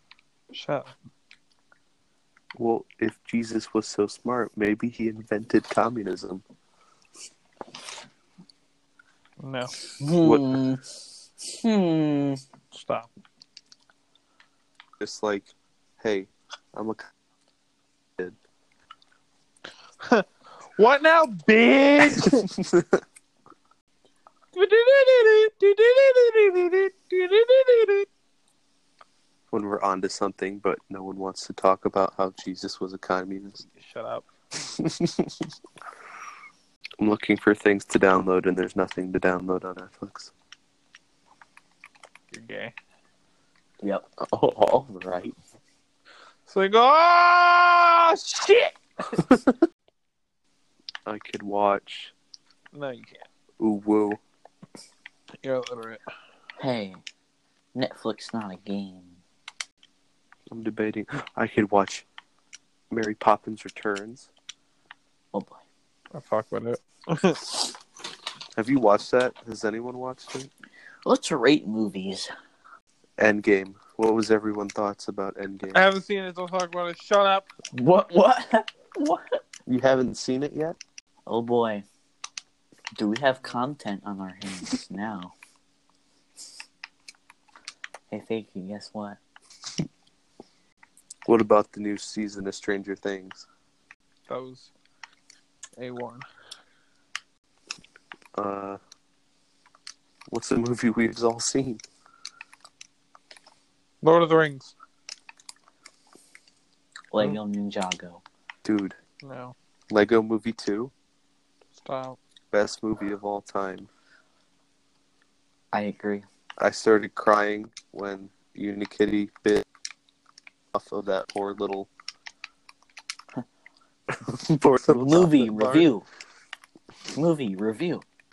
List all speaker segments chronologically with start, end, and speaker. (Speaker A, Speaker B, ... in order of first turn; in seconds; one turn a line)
Speaker A: 0.5-0.9
Speaker B: 2.5-6.4
Speaker A: 9.4-9.7
Speaker C: 10.0-10.8
Speaker B: 10.2-10.6
Speaker C: 11.4-12.4
Speaker A: 12.7-13.1
Speaker B: 15.0-17.1
Speaker A: 20.8-22.5
Speaker B: 22.6-22.9
Speaker A: 24.5-28.1
Speaker B: 29.5-33.6
Speaker A: 33.6-34.2
Speaker B: 34.7-35.5
Speaker B: 37.0-40.3
Speaker A: 42.3-42.7
Speaker B: 44.2-45.4
Speaker A: 46.5-49.1
Speaker B: 49.2-49.5
Speaker B: 51.0-52.1
Speaker A: 52.7-53.2
Speaker B: 53.6-54.2
Speaker A: 55.4-56.0
Speaker C: 56.6-57.0
Speaker C: 57.7-59.2
Speaker B: 60.5-62.0
Speaker B: 62.9-64.3
Speaker C: 65.3-65.6
Speaker A: 66.1-67.6
Speaker B: 68.5-70.5
Speaker C: 71.0-72.3
Speaker B: 73.2-75.8
Speaker A: 75.7-77.5
Speaker C: 77.7-79.4
Speaker B: 79.7-80.8
Speaker C: 81.3-81.8
Speaker C: 83.0-85.3
Speaker C: 88.1-89.2
Speaker B: 91.2-93.5
Speaker A: 94.3-94.7
Speaker A: 95.8-96.2
Speaker B: 98.3-98.8
Speaker B: 100.3-101.8
Speaker A: 104.0-104.7
Speaker C: 107.1-108.2
Speaker B: 108.6-109.0
Speaker A: 109.2-109.5
Speaker B: 109.9-110.9
Speaker A: 111.8-112.2
Speaker B: 112.5-113.9
Speaker C: 115.7-116.2
Speaker B: 116.6-119.6
Speaker B: 120.7-121.9
Speaker B: 124.3-125.9
Speaker C: 124.9-126.0
Speaker C: 127.1-128.0